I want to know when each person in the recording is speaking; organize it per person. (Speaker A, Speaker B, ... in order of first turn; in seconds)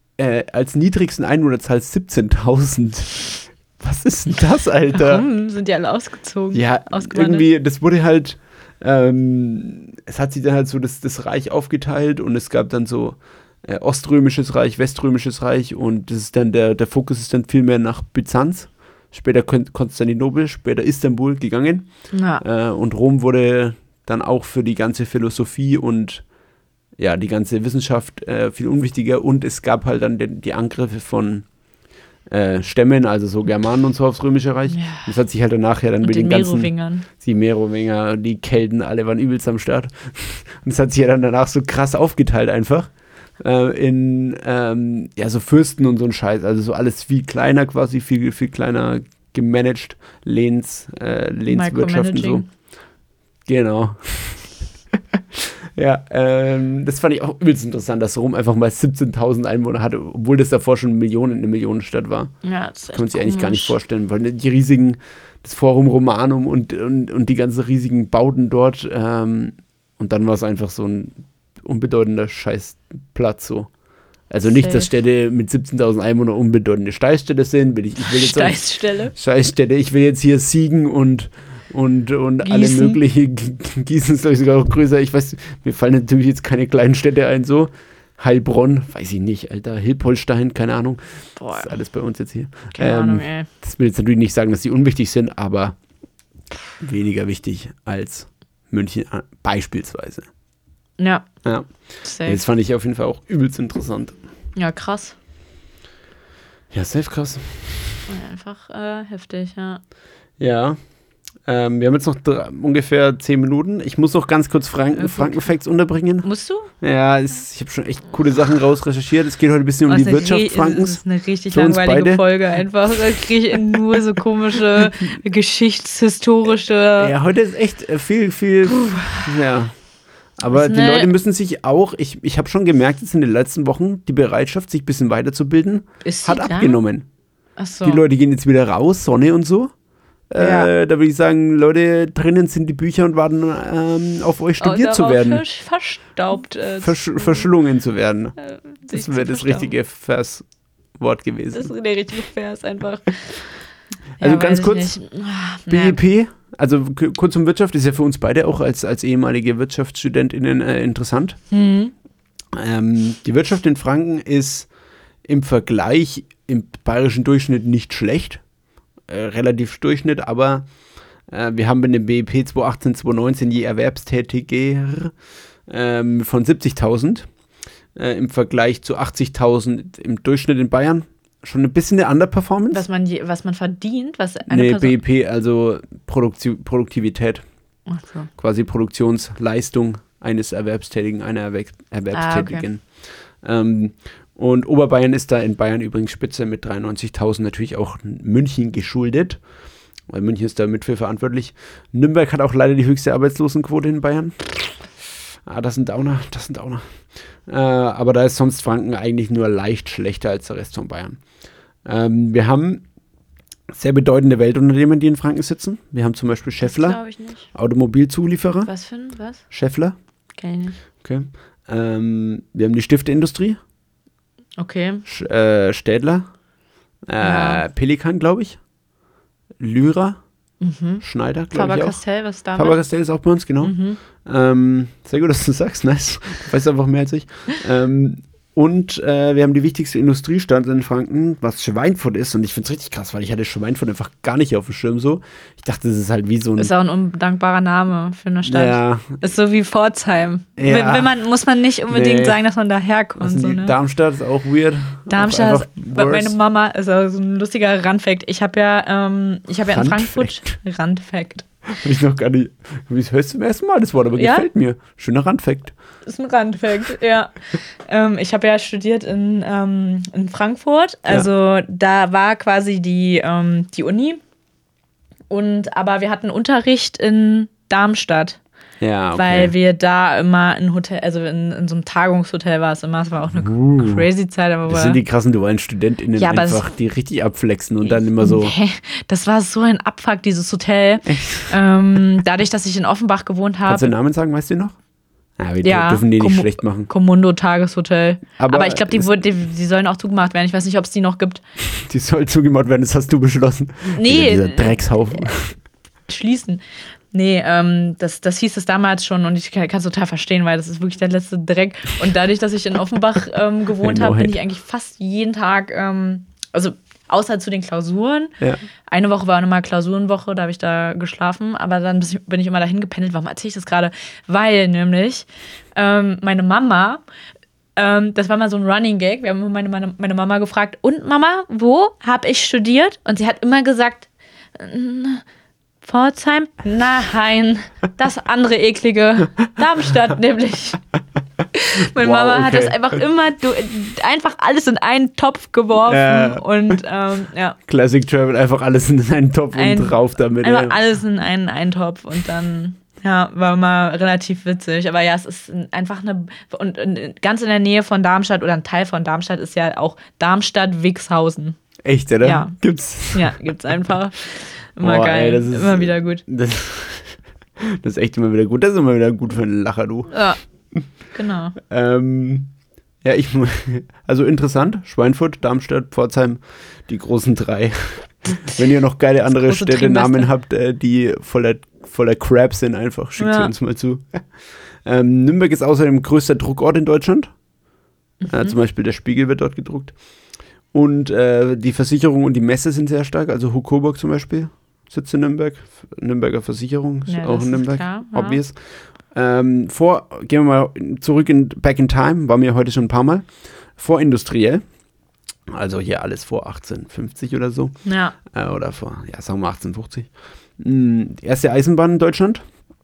Speaker A: 0.2-5.3, 6.5-21.9, 22.4-26.2, 27.0-31.4, 32.3-52.5, 53.5-62.3, 62.9-73.7, 74.3-78.6, 79.1-91.0, 91.5-95.8, 96.8-100.3, 101.4-101.7, 102.2-104.2, 106.7-108.0, 110.4-110.8, 111.5-116.3, 116.8-122.2, 127.0-129.7, 130.4-137.1, 137.8-139.7, 140.3-145.4, 146.8-150.4, 151.0-151.7, 154.2-155.0, 155.7-161.4, 162.5-164.7, 165.3-168.4, 169.1-170.7, 171.3-175.1, 175.7-177.3, 178.0-182.8, 184.5-187.4, 188.4-192.9, 193.4-199.4, 200.1-204.8, 205.5-206.9, 207.5-211.2, 211.8-212.8, 213.7-217.0, 217.5-218.7, 219.5-219.9, 221.0-223.6, 225.1-226.2, 227.1-228.6, 229.6-230.2, 231.0-232.0, 232.5-246.7, 248.5-249.2, 250.6-251.1, 251.9-252.4, 253.2-256.4, 259.7-260.5, 261.7-265.7, 278.8-279.5, 283.3-284.1, 284.7-288.5, 291.1-291.6, 293.7-294.8, 295.4-296.9, 298.4-299.2, 301.7-305.6, 313.8-314.4, 341.8-342.8, 345.9-346.4, 347.7-350.8, 361.8-363.5, 364.8-370.1, 371.6-372.5, 373.0-384.2, 384.9-387.3, 388.3-389.9, 390.7-398.6, 399.1-403.3, 403.8-404.6, 405.5-407.8, 408.3-412.4
Speaker B: 4.9-7.5, 22.1-22.4, 34.7-35.1, 36.0-37.1, 51.5-52.5, 62.4-63.8, 74.5-74.9, 78.0-79.1, 82.4-83.0, 91.4-91.7, 92.8-93.5, 101.0-101.3, 102.0-102.4, 104.6-105.2, 108.1-109.8, 115.0-115.5, 116.2-116.7, 119.9-127.1, 128.7-129.3, 130.5-131.1, 136.0-136.8, 137.6-138.0, 140.4-140.7, 144.6-147.5, 148.4-149.7, 151.5-153.4, 154.2-156.0, 161.5-161.9, 182.7-185.0, 187.9-188.3, 192.1-192.7, 216.6-217.5, 218.7-219.4, 220.4-220.8, 224.6-225.0, 227.2-227.6, 230.6-232.8, 233.6-234.0, 246.6-253.7, 255.1-261.4, 264.2-264.5, 266.1-267.4, 267.9-274.2, 275.3-278.4, 279.1-285.0, 286.2-286.7, 287.9-293.9, 295.6-301.4, 303.9-305.3, 306.1-318.3, 318.9-327.0, 327.8-335.2, 335.8-340.8, 341.5-347.6, 349.5-361.6, 362.2-362.6, 363.1-366.2, 370.1-370.4, 371.1-371.6, 379.3-380.3, 383.2-383.5, 388.2-388.5, 397.1-398.4, 407.9-408.2